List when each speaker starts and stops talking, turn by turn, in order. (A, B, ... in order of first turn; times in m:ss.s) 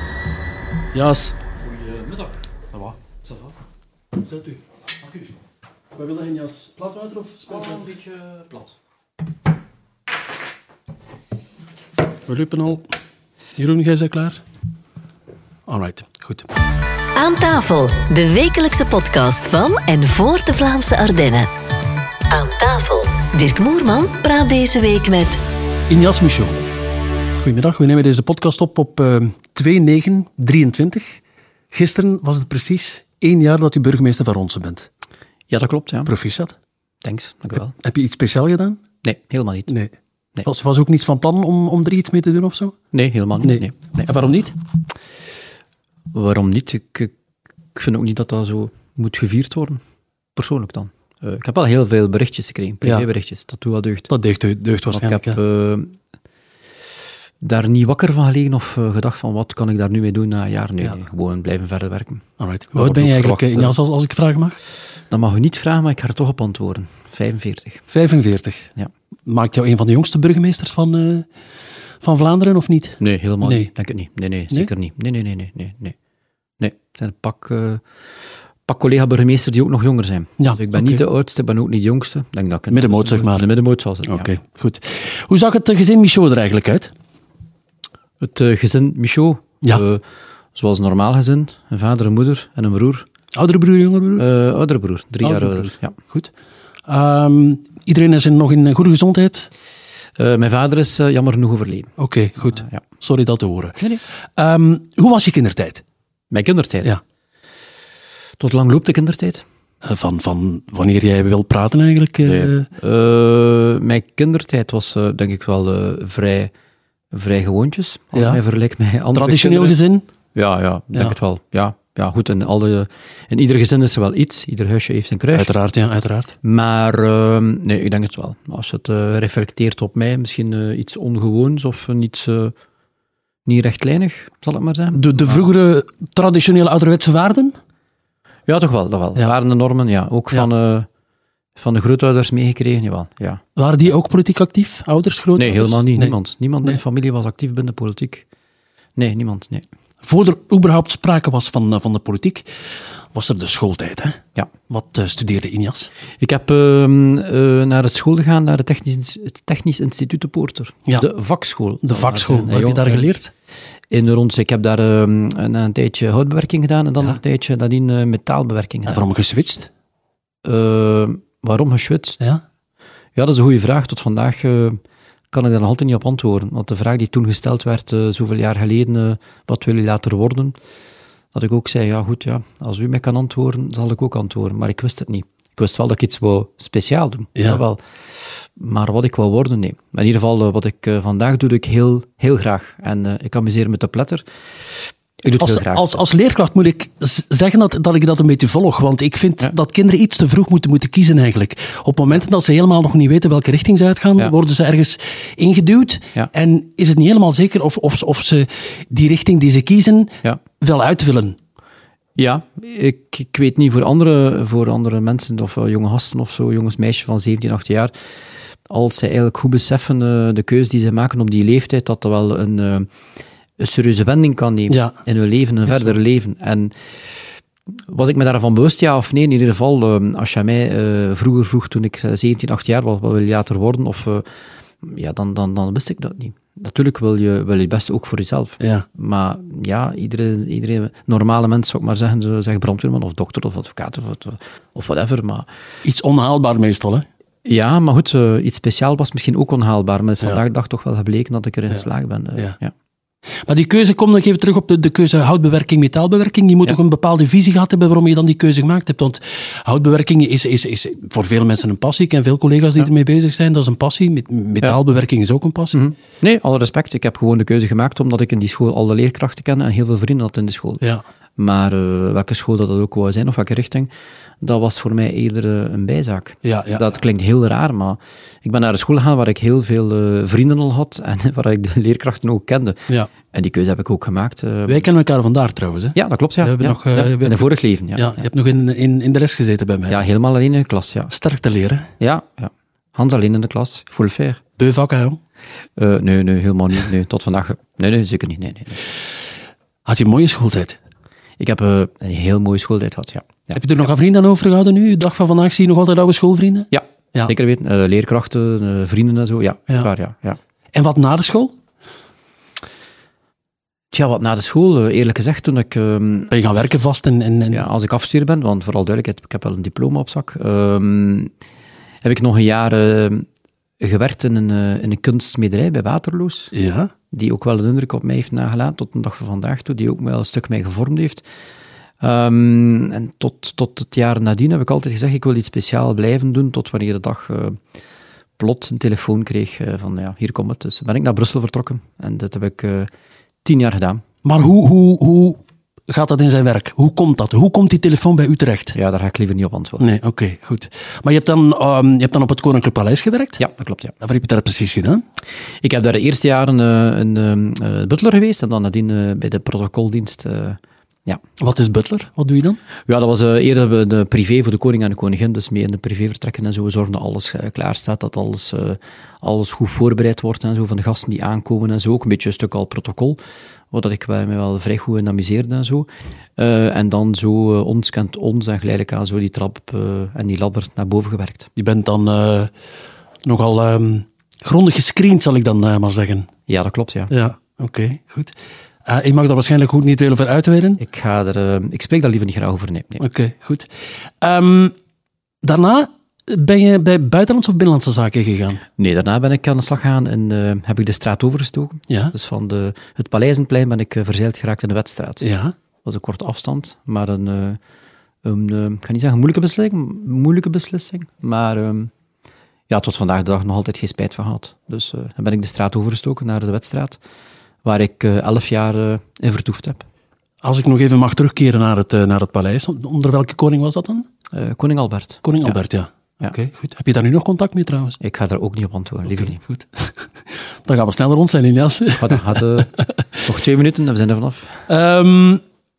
0:00.9-0:01.4 A
0:01.6-0:02.4 B
0:03.0-0:03.3 B
0:04.2-0:05.2 A
0:05.9-0:07.9 A
0:07.5-0:08.8 B
0:12.3-0:12.9 A
0:13.6-0:14.4 A
0:15.7-0:16.5 A
0:17.2-0:21.5 C
0:22.3-0:25.4 C
0:25.9-0:26.7 A
0:27.4-0:34.9 A
0:35.5-0:36.1 B
0:36.1-0:36.6 A
0:37.0-0:37.7 B
0:37.8-0:38.8 A
0:39.0-0:39.7 B
0:39.7-0:42.8 A
0:42.9-0:44.1 B
0:43.4-0:44.6 A
0:46.1-0:47.1 B
0:47.8-0:49.8 B
0:50.4-0:54.1 B
0:52.8-0:53.1 A
0:54.1-0:55.4 A
0:54.9-0:56.0 B
0:57.4-1:02.2 B
1:02.4-1:04.6 A
1:02.7-1:03.8 B
1:05.1-1:07.9 B
1:07.9-1:08.7 A
1:09.3-1:11.3 A
1:12.0-1:13.7 A
1:13.0-1:16.0 B
1:16.6-1:17.8 B
1:18.7-1:24.3 B
1:20.4-1:21.0 A
1:22.7-1:23.5 A
1:24.0-1:26.9 A
1:28.2-1:30.0 B
1:30.6-1:33.1 B
1:33.3-1:34.3 A
1:34.2-1:36.0 B
1:35.2-1:36.3 A
1:36.9-1:39.5 A
1:40.2-1:42.0 B
1:42.0-1:45.8 A
1:42.6-1:42.8 B
1:46.3-1:46.9 B
1:48.4-1:49.4 B
1:49.8-1:52.7 A
1:52.3-1:56.5 B
1:57.1-1:59.8 B
1:58.1-1:58.4 A
1:59.1-2:00.1 A
2:00.4-2:05.5 B
2:05.3-2:06.3 A
2:06.4-2:12.5 B
2:13.5-2:15.5 B
2:14.9-2:17.6 A
2:18.5-2:20.9 B
2:21.6-2:23.4 B
2:23.6-2:26.1 A
2:25.4-2:28.3 B
2:29.0-2:29.6 B
2:30.0-2:32.5 A
2:33.1-2:35.9 A
2:36.2-2:43.1 B
2:41.8-2:43.3 A
2:43.9-2:49.1 B
2:48.9-2:49.7 A
2:50.4-2:52.2 B
2:53.2-2:54.8 B
2:55.3-3:00.6 B
3:01.3-3:07.8 B
3:07.4-3:07.6 A
3:08.6-3:14.2 B
3:15.2-3:16.0 B
3:15.4-3:31.4 A
3:32.2-3:37.9 B
3:38.7-3:42.9 B
3:43.6-3:46.7 B
3:44.7-3:45.0 A
3:47.9-3:54.3 B
3:54.8-4:05.5 B
3:58.6-3:58.9 A
4:05.8-4:07.1 A
4:07.4-4:12.7 B
4:13.5-4:25.8 A
4:25.7-4:30.8 B
4:31.4-4:44.9 B
4:36.4-4:36.9 A
4:44.7-4:50.0 A
4:46.0-4:48.2 B
4:49.9-4:51.1 B
4:51.1-4:51.9 A
4:52.0-4:54.4 B
4:54.6-4:55.2 A
4:55.8-4:58.8 B
4:59.8-5:00.8 A
5:01.4-5:03.6 B
5:03.5-5:07.3 A
5:06.7-5:10.4 B
5:10.8-5:11.6 A
5:13.9-5:16.3 B
5:16.3-5:17.7 A
5:17.5-5:21.3 B
5:22.0-5:23.3 B
5:23.8-5:26.5 B
5:26.5-5:26.9 A
5:27.1-5:31.2 B
5:32.0-5:37.6 B
5:38.4-5:42.9 B
5:43.4-5:44.0 B
5:44.2-5:48.8 A
5:48.8-5:49.9 B
5:49.8-5:53.4 A
5:53.4-5:53.9 B
5:54.0-5:55.0 A
5:55.6-6:01.2 B
6:01.4-6:02.6 A
6:02.9-6:13.2 B
6:13.7-6:21.5 B
6:21.6-6:22.5 A
6:23.2-6:26.3 A
6:26.5-6:27.1 B
6:27.1-6:28.3 A
6:28.8-6:30.8 A
6:30.8-6:33.0 B
6:33.0-6:33.7 A
6:34.2-6:34.7 A
6:35.4-6:38.6 A
6:38.8-6:45.2 B
6:41.9-6:42.1 A
6:45.2-6:45.6 A
6:45.8-6:47.6 B
6:48.2-6:51.9 B
6:52.7-6:57.0 B
6:57.6-6:59.8 B
7:00.4-7:04.1 A
7:04.3-7:05.6 B
7:05.2-7:08.0 A
7:08.0-7:09.4 B
7:09.1-7:12.7 A
7:12.0-7:14.6 B
7:14.7-7:15.4 A